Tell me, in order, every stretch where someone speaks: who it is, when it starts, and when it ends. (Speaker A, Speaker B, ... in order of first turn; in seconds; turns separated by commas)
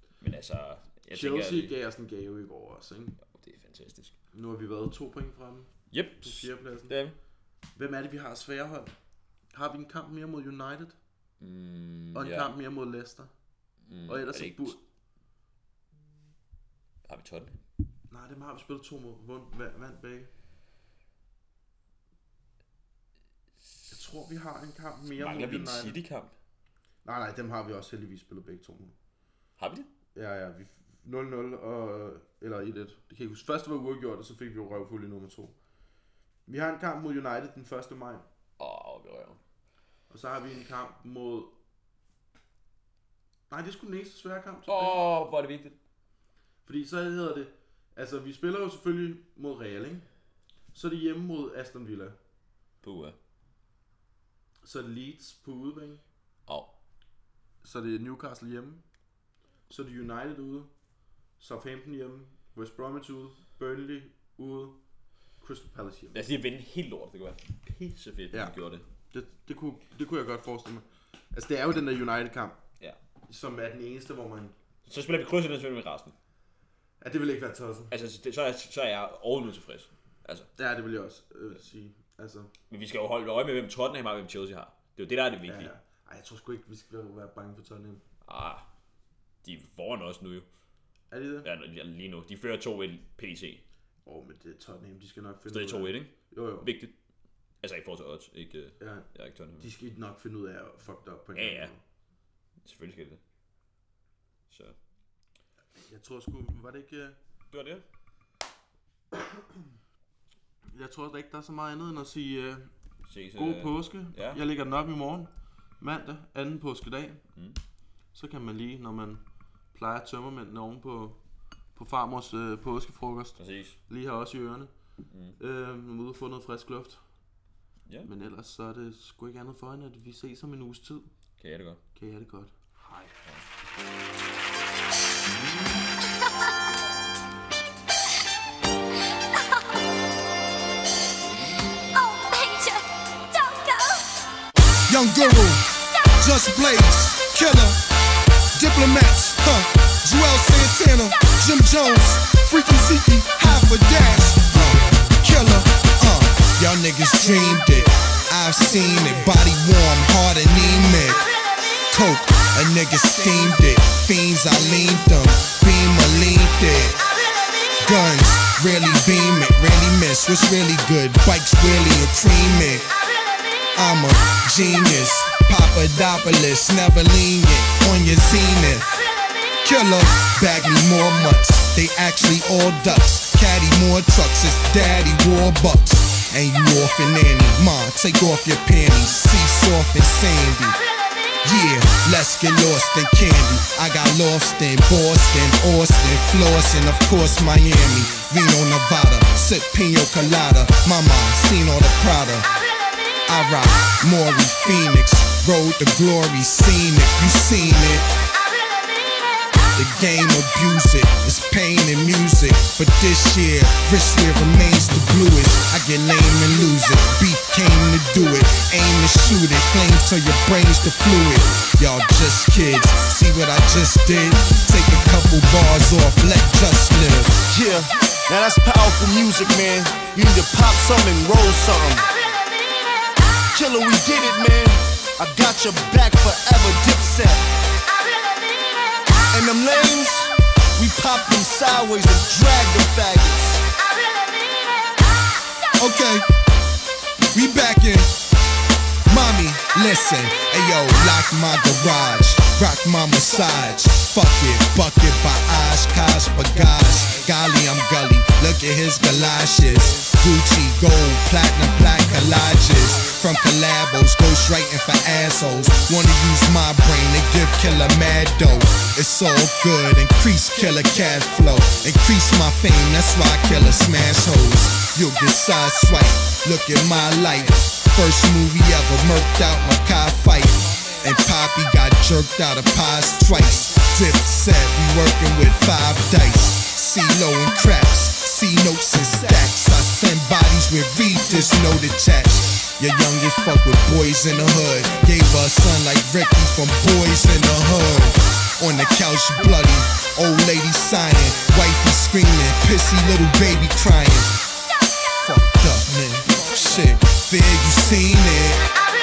Speaker A: 0.2-1.8, Speaker B: 1.1-3.2, Speaker A: 3.3-4.2, Speaker B: 4.3-6.9, Speaker A: 5.9-7.2, Speaker B: 7.8-8.9, Speaker B: 9.5-11.0, Speaker A: 11.4-12.5, Speaker B: 12.1-13.3, Speaker A: 13.9-14.8, Speaker B: 14.1-14.8, Speaker A: 17.1-17.6, Speaker B: 18.1-20.3, Speaker B: 23.9-26.0, Speaker A: 25.1-26.3, Speaker B: 27.0-28.9, Speaker A: 29.6-29.9, Speaker B: 30.1-35.5, Speaker B: 36.5-38.2, Speaker A: 38.6-39.4, Speaker B: 40.1-41.5, Speaker B: 43.5-45.0, Speaker A: 44.7-45.8, Speaker B: 46.6-50.0, Speaker B: 50.7-52.2, Speaker A: 52.8-53.2, Speaker B: 54.6-56.0, Speaker A: 56.5-56.7, Speaker B: 57.6-58.8, Speaker B: 59.7-60.7, Speaker B: 61.4-64.8, Speaker B: 65.4-66.2, Speaker A: 66.1-68.8, Speaker B: 68.3-68.5, Speaker B: 69.1-72.6, Speaker B: 73.3-74.5, Speaker A: 74.9-76.1, Speaker B: 77.0-77.9, Speaker A: 77.9-80.5, Speaker B: 80.6-82.5, Speaker A: 82.7-85.7, Speaker B: 85.5-88.0, Speaker A: 88.2-88.7, Speaker A: 89.4-90.5, Speaker B: 91.1-91.5, Speaker A: 91.4-93.6, Speaker B: 94.0-96.7, Speaker A: 95.5-96.9, Speaker A: 97.6-99.7, Speaker B: 98.8-99.1, Speaker B: 99.6-101.8, Speaker A: 101.3-101.7, Speaker A: 102.6-103.2, Speaker A: 104.5-104.8, Speaker B: 105.7-107.2, Speaker A: 107.5-107.8, Speaker B: 109.1-109.4, Speaker B: 110.7-112.7, Speaker A: 113.1-114.4, Speaker B: 113.3-117.2, Speaker B: 118.1-121.2, Speaker B: 121.7-124.7, Speaker A: 123.4-123.8, Speaker A: 125.1-125.4, Speaker B: 125.4-127.0, Speaker B: 128.0-131.1, Speaker A: 131.4-131.8, Speaker B: 131.9-133.1, Speaker C: 139.3-139.8, Speaker C: 141.9-144.1, Speaker D: 144.9-145.7, Speaker D: 146.2-147.8, Speaker D: 148.5-161.3, Speaker D: 161.9-167.0, Speaker D: 167.8-172.9, Speaker D: 173.7-179.0, Speaker D: 179.6-190.8, Speaker D: 191.4-202.5, Speaker D: 203.3-208.0, Speaker D: 209.7-227.5, Speaker E: 227.5-232.1, Speaker E: 233.5-237.5, Speaker E: 239.3-243.6, Speaker D: 245.8-246.3, Speaker D: 247.3-248.2, Speaker D: 249.1-304.4, Speaker D: 305.2-308.6, Speaker E: 306.3-306.9